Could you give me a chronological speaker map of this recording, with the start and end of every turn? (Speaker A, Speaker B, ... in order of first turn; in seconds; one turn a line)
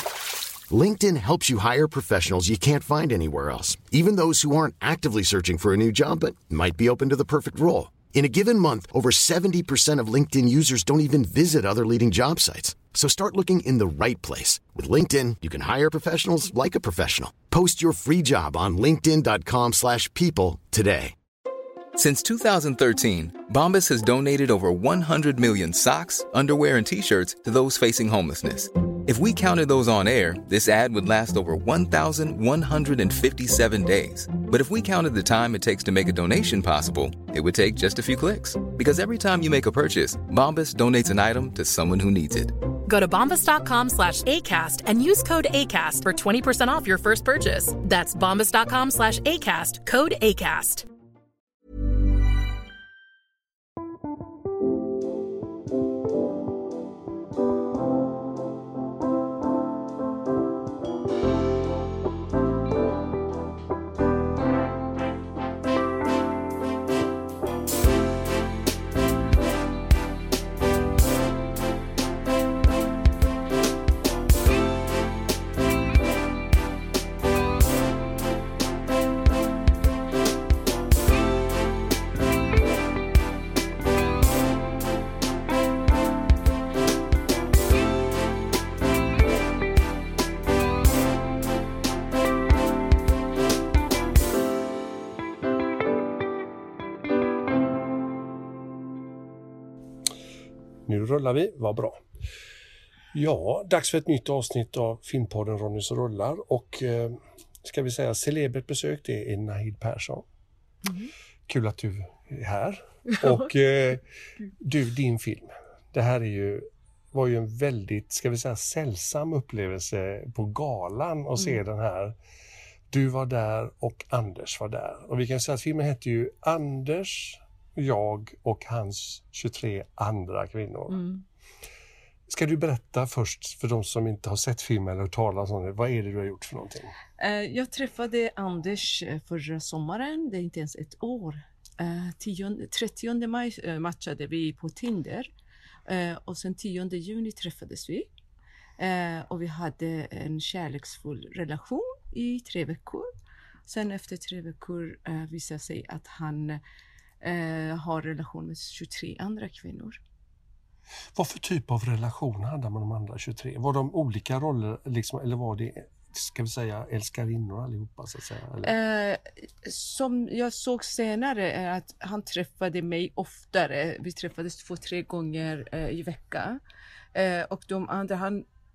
Speaker A: 0.7-21.1
Speaker B: 21.9-42.5
Speaker C: 42.9-50.9
Speaker D: 100.9-102.0
Speaker D: 103.1-110.2
Speaker D: 111.5-114.0
Speaker E: 113.1-113.5
Speaker D: 114.6-122.2
Speaker D: 122.9-131.0
Speaker E: 130.9-131.2
Speaker D: 132.3-136.9
Speaker E: 137.2-145.3
Speaker E: 145.9-148.1
Speaker E: 148.8-153.1
Speaker E: 153.7-156.6
Speaker E: 157.2-160.0
Speaker D: 161.1-168.7
Speaker E: 168.6-176.6
Speaker E: 177.1-178.4